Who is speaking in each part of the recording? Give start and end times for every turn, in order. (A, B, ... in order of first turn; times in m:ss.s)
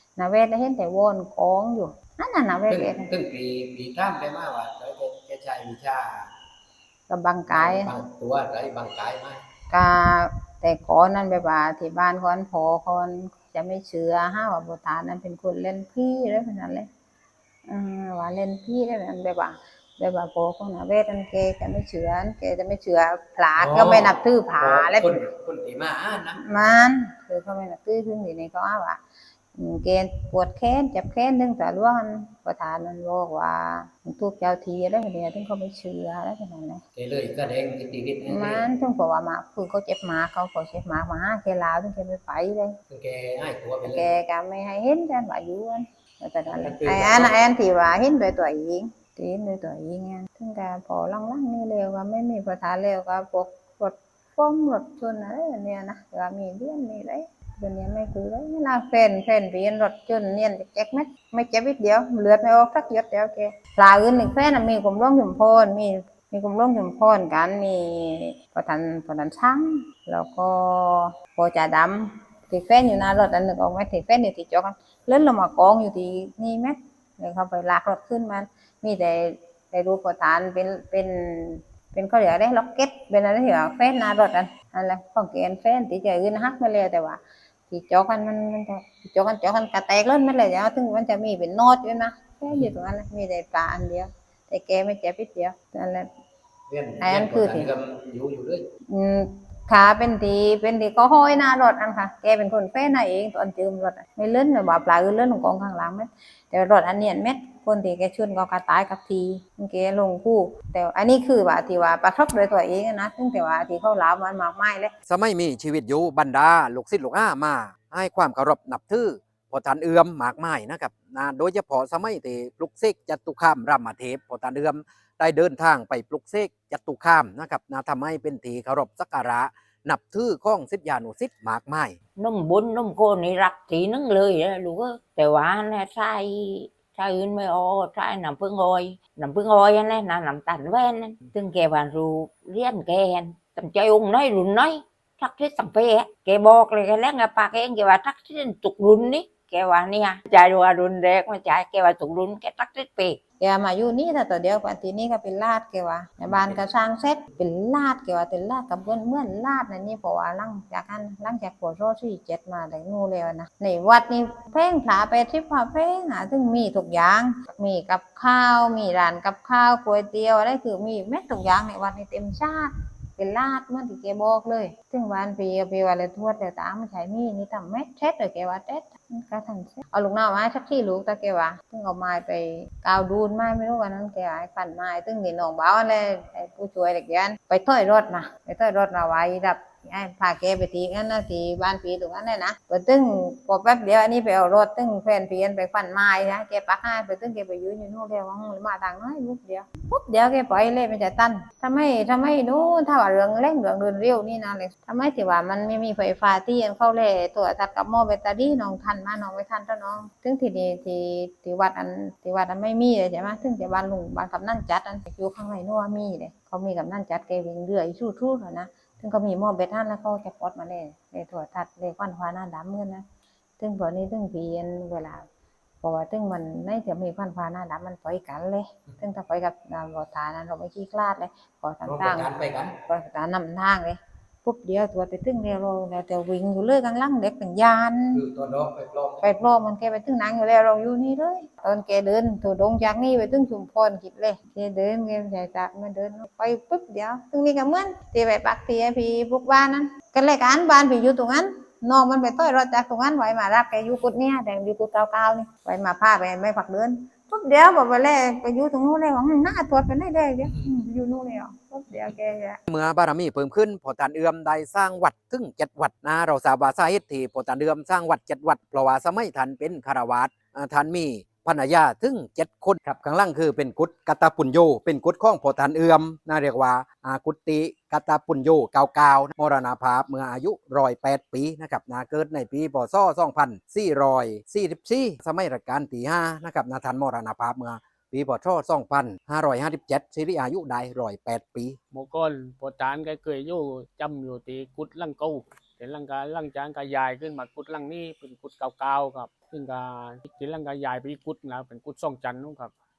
0:00.2-0:03.1 A
0:02.7-0:06.3 B
0:07.1-0:07.9 A
0:07.5-0:09.4 B
0:09.7-0:16.9 A
0:17.7-0:25.2 A
0:23.6-0:26.4 B
0:26.4-0:29.0 A
0:29.6-0:36.8 A
0:36.9-0:38.6 B
0:38.2-0:42.8 A
0:42.9-0:44.1 B
0:43.8-1:36.1 A
0:46.4-0:47.4 B
1:36.7-1:38.6 B
1:37.0-1:37.7 A
1:38.9-1:54.9 A
1:55.0-2:12.0 B
2:12.3-2:14.4 C
2:15.4-2:16.0 C
2:17.2-2:17.6 C
2:18.1-2:18.8 C
2:19.4-2:20.9 C
2:21.6-2:22.1 C
2:22.6-2:24.7 C
2:25.4-2:33.0 C
2:33.4-3:43.0 A
2:36.2-2:36.6 B
3:43.6-3:45.2 A
3:45.8-3:52.3 A
3:51.8-3:52.7 B
3:52.9-3:58.2 A
3:58.1-3:59.3 B
3:59.2-4:22.6 A
4:22.7-4:51.8 B
4:51.9-5:02.7 D